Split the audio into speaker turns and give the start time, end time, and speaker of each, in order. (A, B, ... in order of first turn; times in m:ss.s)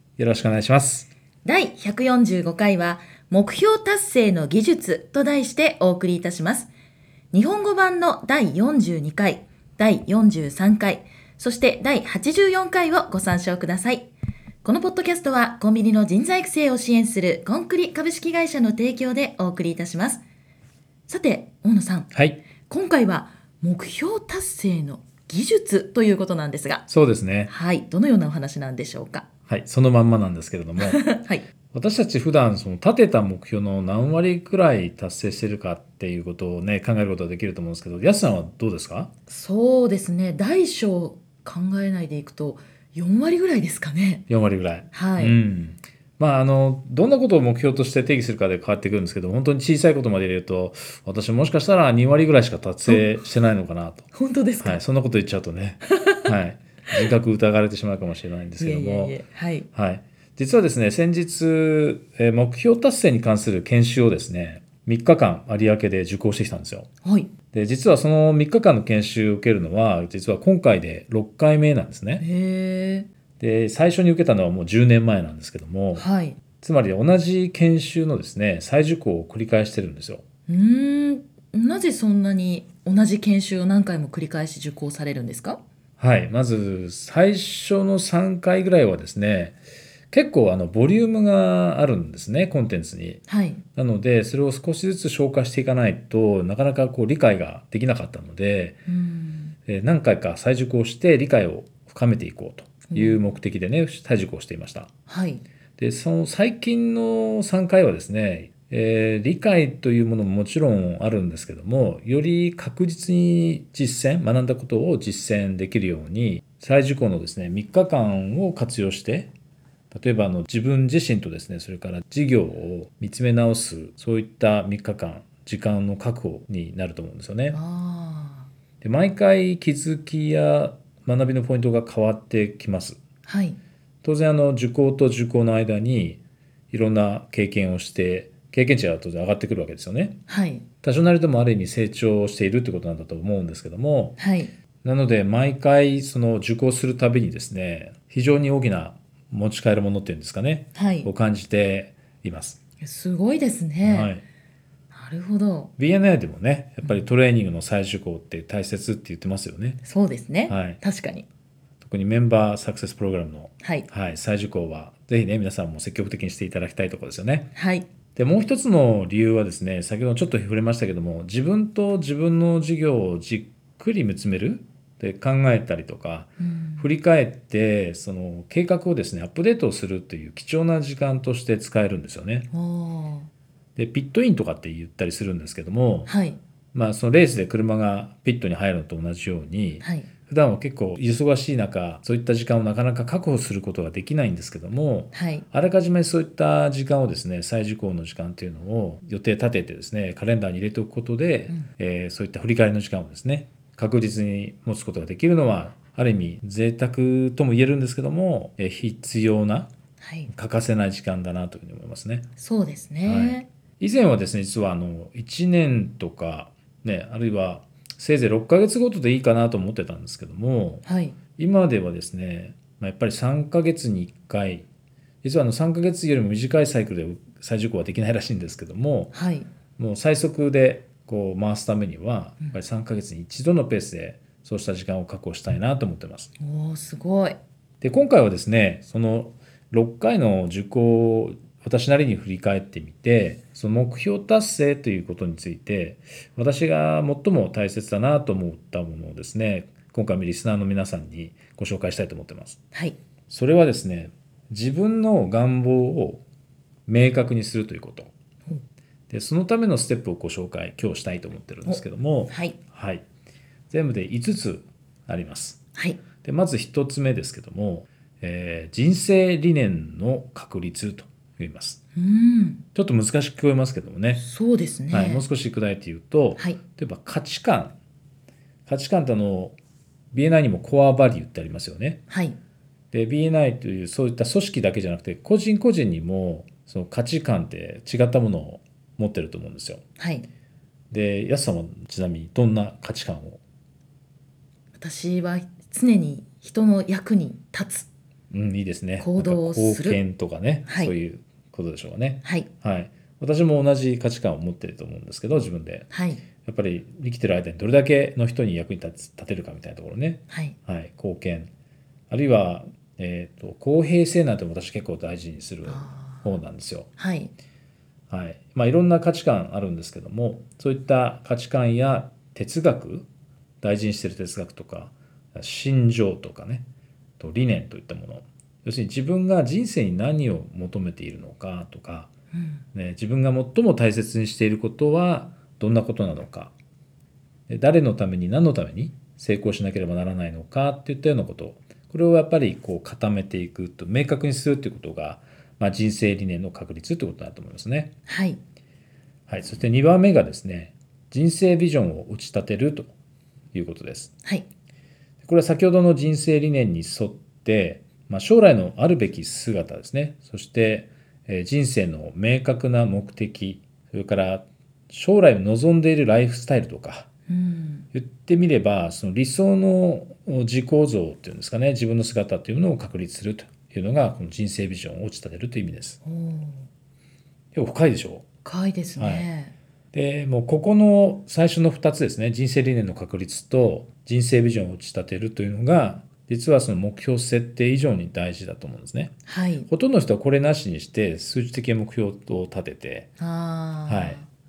0:00.2-0:01.1 A
0:01.4-0:06.7 B
0:07.3-0:14.1 B
0:14.6-0:20.2 B
0:21.1-0:22.1 B
0:22.1-0:22.4 A
0:22.6-0:26.8 B
0:26.9-0:27.5 A
0:27.5-0:29.3 B
0:29.5-0:31.0 A
0:30.8-0:31.4 B
0:31.7-0:39.1 A
0:39.3-0:44.2 B
0:44.3-0:54.0 A
0:44.9-0:45.4 B
0:54.1-0:54.8 B
0:54.6-0:59.2 A
0:55.9-0:56.2 B
0:58.6-0:59.7 B
0:59.7-1:06.9 A
1:07.0-1:07.3 B
1:07.5-1:12.2 A
1:12.2-1:13.1 B
1:13.4-1:20.2 A
1:15.9-1:16.4 B
1:20.5-1:25.6 B
1:26.0-1:29.6 A
1:30.1-1:33.2 A
1:33.3-1:33.6 B
1:33.7-1:38.8 A
1:38.9-1:39.5 B
1:39.6-1:44.9 A
1:42.9-1:43.2 B
1:45.1-1:45.4 B
1:45.8-1:59.3 A
1:59.9-2:07.6 A
2:07.5-2:08.5 B
2:08.8-2:13.0 A
2:13.3-2:13.6 B
2:14.0-2:20.2 A
2:20.3-2:20.6 B
2:20.8-2:24.2 A
2:24.2-2:24.5 B
2:24.8-2:32.6 A
2:30.7-2:31.1 B
2:32.8-2:34.1 B
2:33.8-2:34.2 A
2:34.9-2:35.7 B
2:35.8-2:39.8 A
2:39.8-2:41.3 B
2:40.5-2:40.8 A
2:41.8-2:47.5 A
2:43.6-2:43.9 B
2:47.5-2:47.9 B
2:48.1-3:02.5 A
2:56.4-2:56.9 B
3:02.5-3:03.3 B
3:03.8-3:06.1 A
3:06.1-3:06.4 B
3:06.7-3:29.7 A
3:09.8-3:10.1 B
3:15.1-3:15.4 B
3:30.0-3:30.3 B
3:30.3-3:32.3 A
3:32.4-3:33.5 B
3:33.0-3:44.7 A
3:40.8-3:41.2 B
3:45.2-3:49.1 A
3:49.1-3:49.5 B
3:49.8-3:56.3 A
3:56.4-3:57.4 B
3:57.8-4:12.6 A
4:12.7-4:13.0 B
4:13.3-4:16.2 A
4:16.9-4:18.1 A
4:19.1-4:23.0 A
4:21.6-4:22.6 B
4:23.7-4:25.6 A
4:25.8-4:26.0 B
4:26.2-4:31.8 A
4:31.9-4:32.6 B
4:32.7-4:34.2 A
4:34.2-4:35.2 B
4:34.9-4:37.8 A
4:38.7-4:39.6 A
4:40.1-4:42.0 A
4:42.1-4:42.4 B
4:42.9-4:49.8 A
4:50.0-4:50.3 B
4:50.9-4:53.4 A
4:54.8-4:57.9 B
4:58.3-5:05.8 A
4:59.0-5:00.0 B
5:00.7-5:00.9 B
5:05.9-5:06.2 B
5:06.4-5:11.5 A
5:10.3-5:10.6 B
5:12.1-5:16.9 A
5:15.7-5:16.3 B
5:17.0-5:17.3 B
5:18.1-5:23.1 A
5:23.6-5:26.6 A
5:27.2-5:32.1 A
5:32.7-5:36.5 A
5:37.5-5:47.9 A
5:48.1-5:48.4 B
5:49.3-5:52.9 A
5:53.5-5:54.1 A
5:55.2-6:07.1 A
6:07.3-6:07.9 B
6:07.9-6:16.0 A
6:16.0-6:16.6 B
6:17.5-6:18.3 A
6:18.4-6:19.5 B
6:19.0-6:19.3 A
6:19.9-6:29.1 A
6:29.3-6:29.7 B
6:29.7-6:33.1 A
6:33.2-6:34.3 B
6:33.9-6:34.2 A